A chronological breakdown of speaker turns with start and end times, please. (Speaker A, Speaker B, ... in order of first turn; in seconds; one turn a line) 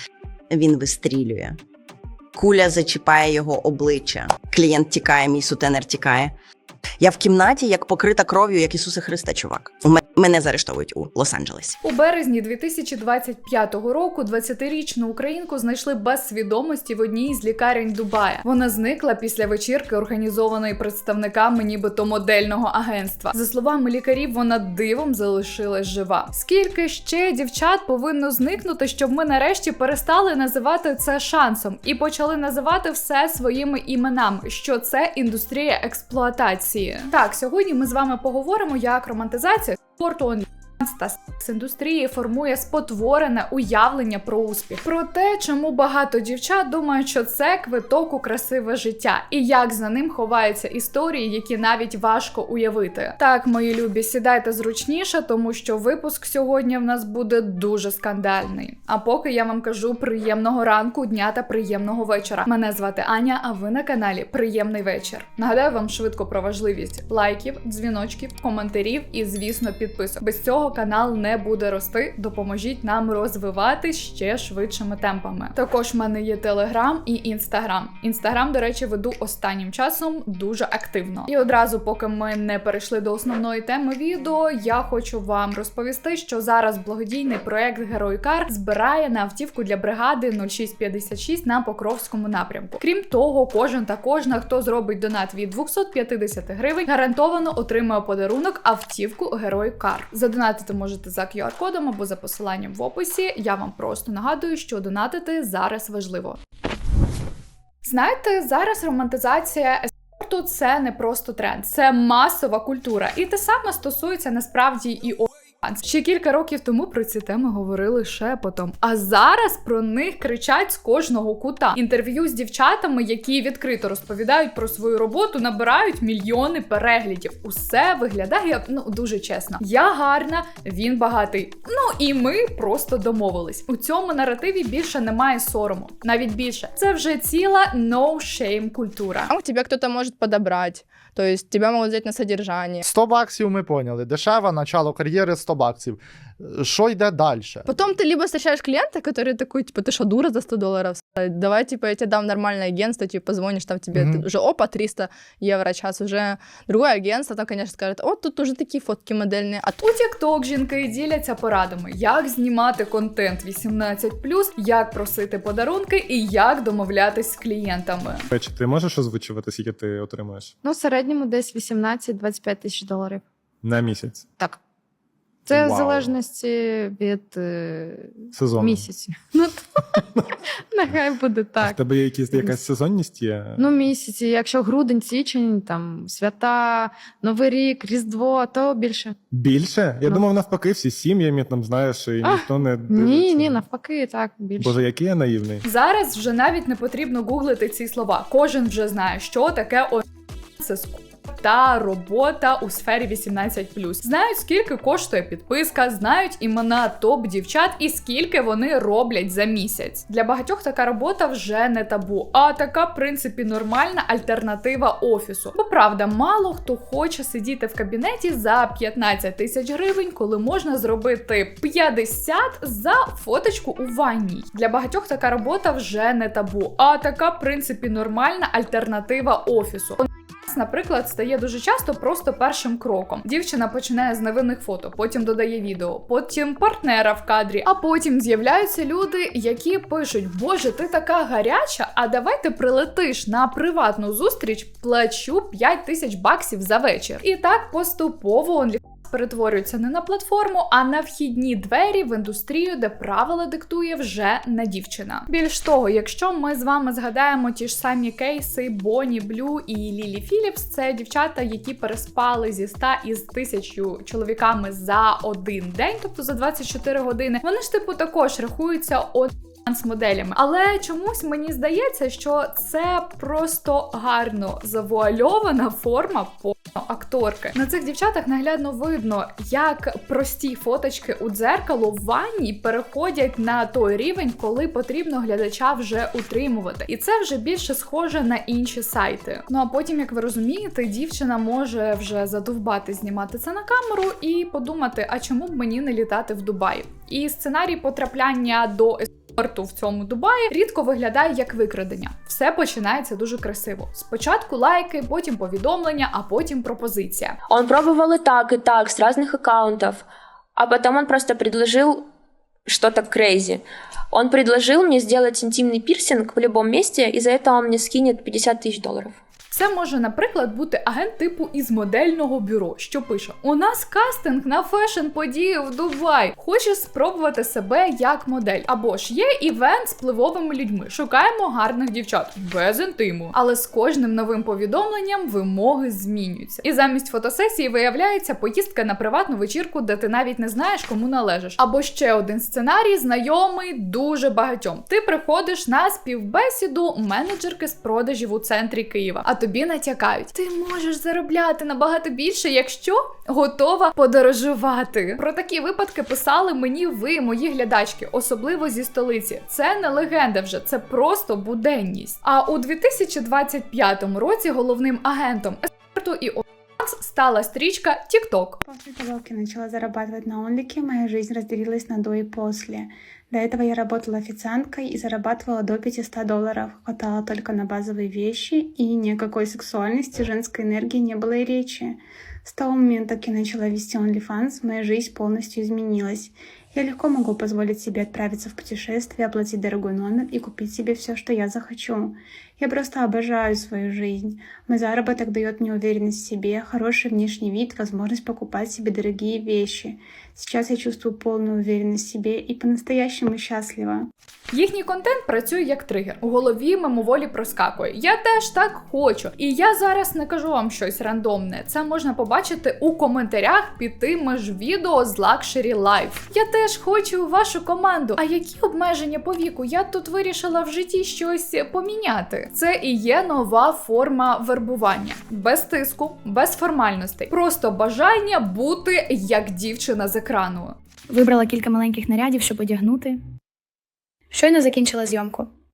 Speaker A: 0.5-1.6
Speaker A: 2.4-6.3
Speaker A: 7.0-11.8
Speaker B: 11.8-106.4
Speaker B: 107.8-139.3
Speaker C: 139.3-142.8
Speaker D: 142.8-147.7
Speaker C: 147.7-159.8
Speaker D: 153.9-154.2
Speaker B: 159.8-168.3
Speaker E: 168.3-170.5
Speaker F: 170.6-173.2
Speaker E: 173.6-174.2
Speaker F: 175.4-180.0
Speaker E: 175.5-176.1
Speaker E: 178.3-178.8
Speaker F: 180.7-181.8
Speaker E: 181.6-183.6
Speaker F: 182.3-182.6
Speaker F: 183.6-189.1
Speaker E: 189.3-193.6
Speaker F: 190.0-190.3
Speaker F: 192.2-194.8
Speaker E: 194.6-195.6
Speaker B: 195.6-200.0
Speaker B: 200.6-307.4
Speaker G: 307.5-312.0
Speaker G: 312.6-319.2
Speaker B: 319.5-368.6
Speaker H: 368.6-404.1
Speaker B: 404.5-430.7
Speaker I: 431.1-433.2
Speaker I: 434.3-435.5